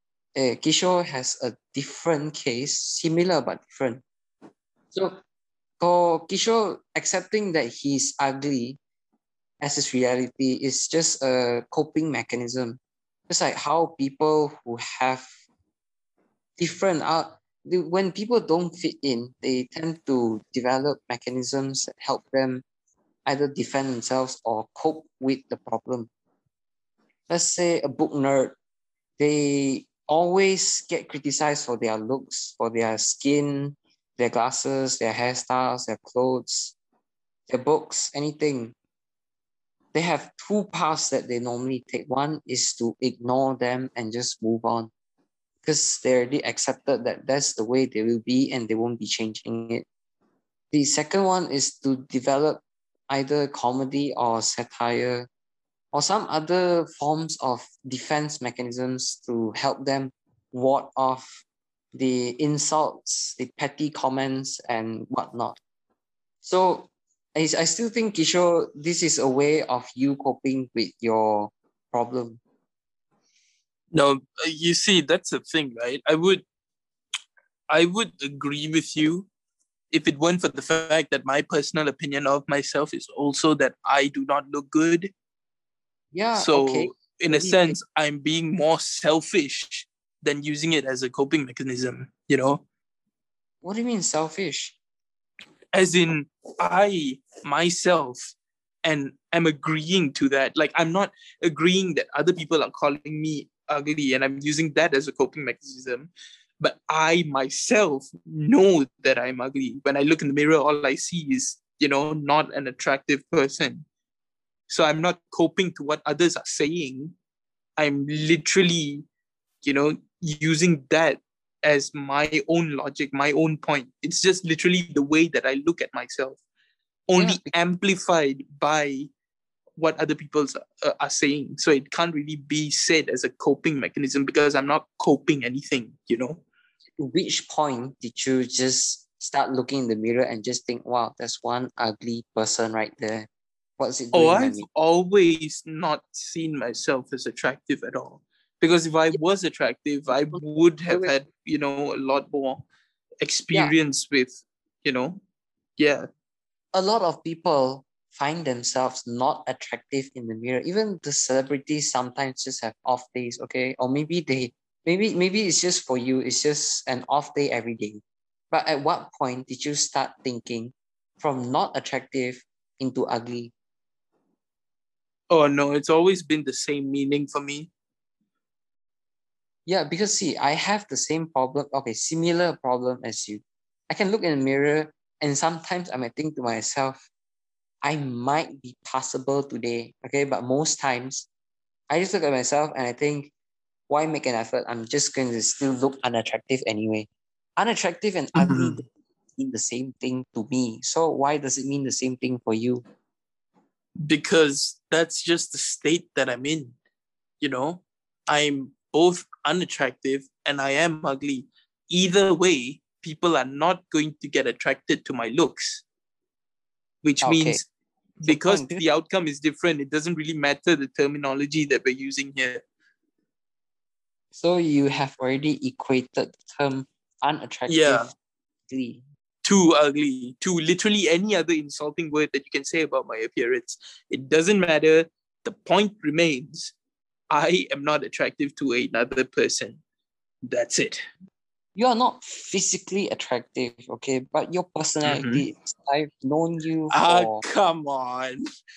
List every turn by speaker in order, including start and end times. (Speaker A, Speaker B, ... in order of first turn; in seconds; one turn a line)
Speaker A: 0.3-4.0
Speaker A: 4.9-5.2
Speaker A: 5.8-8.8
Speaker A: 9.6-15.3
Speaker A: 16.6-22.6
Speaker A: 23.3-26.1
Speaker A: 27.3-28.6
Speaker A: 29.2-36.8
Speaker A: 37.5-38.8
Speaker A: 39.9-44.9
Speaker A: 45.6-49.9
Speaker A: 50.7-55.3
Speaker A: 55.9-61.4
Speaker A: 61.9-65.6
Speaker A: 66.4-72.4
Speaker B: 73.9-76.5
Speaker B: 77.7-79.3
Speaker B: 79.9-85.1
Speaker A: 86.1-87.8
Speaker B: 86.4-92.6
Speaker A: 93.6-94.8
Speaker B: 95.7-113.9
Speaker B: 114.7-117.2
Speaker B: 117.8-119.0
Speaker B: 119.6-126.4
Speaker B: 127.1-129.1
Speaker A: 127.2-127.5
Speaker B: 129.8-136.4
Speaker A: 137.0-143.3
Speaker A: 143.8-144.7
Speaker B: 144.1-152.7
Speaker A: 150.3-151.1
Speaker B: 153.2-155.2
Speaker B: 155.8-156.1
Speaker A: 156.7-173.5
Speaker B: 175.3-177.7
Speaker A: 179.7-187.1
Speaker A: 187.8-191.3
Speaker A: 191.9-193.3
Speaker A: 193.9-198.9
Speaker B: 198.3-198.8
Speaker A: 199.4-202.8
Speaker B: 204.0-206.8
Speaker B: 207.4-215.8
Speaker B: 217.0-217.7
Speaker A: 217.2-217.6
Speaker A: 218.2-218.8
Speaker B: 218.2-222.6
Speaker A: 224.3-228.1
Speaker B: 227.7-228.1
Speaker A: 228.7-229.0
Speaker B: 229.4-236.7
Speaker B: 237.3-239.8
Speaker B: 240.5-241.0
Speaker A: 241.8-247.4
Speaker B: 245.0-245.4
Speaker B: 246.9-248.4